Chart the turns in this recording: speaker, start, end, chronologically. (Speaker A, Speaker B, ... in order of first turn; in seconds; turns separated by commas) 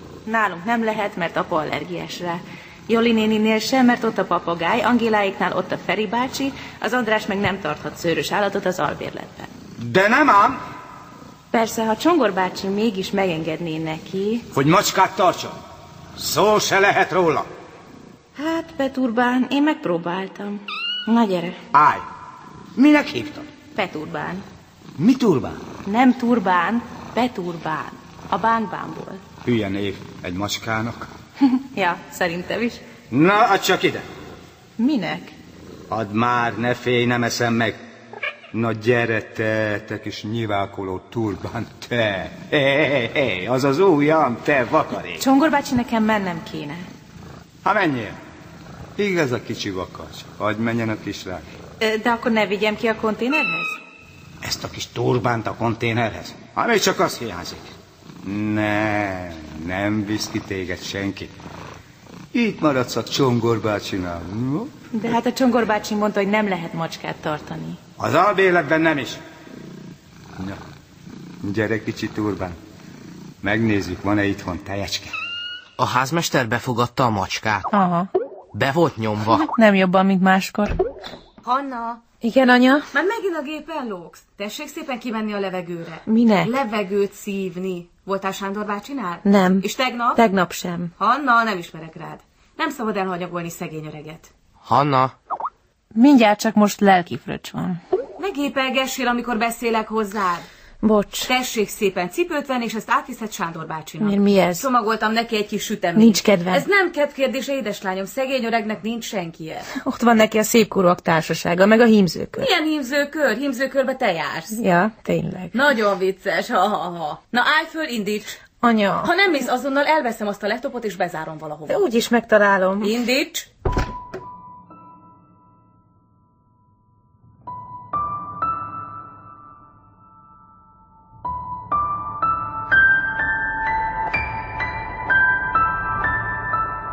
Speaker A: 0.2-9.5, Speaker B: 9.8-10.6, Speaker A: 11.5-14.4, Speaker B: 14.5-15.6, Speaker B: 16.2-17.5, Speaker A: 18.4-21.6, Speaker B: 21.7-22.0, Speaker B: 22.8-23.5, Speaker A: 23.7-24.4, Speaker B: 25.0-25.6, Speaker A: 25.8-29.2, Speaker B: 29.4-31.1, Speaker A: 31.5-32.8, Speaker B: 33.1-34.0, Speaker A: 34.8-35.3, Speaker B: 35.9-37.8, Speaker B: 38.5-45.2, Speaker A: 45.2-46.9, Speaker B: 47.6-48.2, Speaker B: 49.0-51.4, Speaker A: 51.8-53.8, Speaker B: 54.4-57.7, Speaker B: 58.2-61.3, Speaker B: 62.3-64.7, Speaker A: 64.9-67.8, Speaker B: 68.0-69.2, Speaker B: 71.4-72.6, Speaker B: 73.4-75.1, Speaker C: 75.8-77.7, Speaker A: 77.7-78.1, Speaker C: 78.5-79.5, Speaker A: 79.3-80.8, Speaker D: 81.4-82.0, Speaker A: 82.2-82.9, Speaker D: 82.9-90.2, Speaker A: 86.1-86.5, Speaker A: 89.2-90.9, Speaker D: 91.0-94.3, Speaker C: 94.6-95.1, Speaker A: 95.9-97.8, Speaker D: 98.2-100.5, Speaker A: 100.8-101.3, Speaker D: 101.3-109.7, Speaker A: 104.0-104.7, Speaker A: 106.0-106.6, Speaker A: 109.7-112.5, Speaker D: 112.4-114.5, Speaker A: 114.5-115.5, Speaker D: 115.5-118.4, Speaker A: 118.6-119.1, Speaker D: 119.0-121.8, Speaker A: 121.7-122.9, Speaker D: 122.8-123.5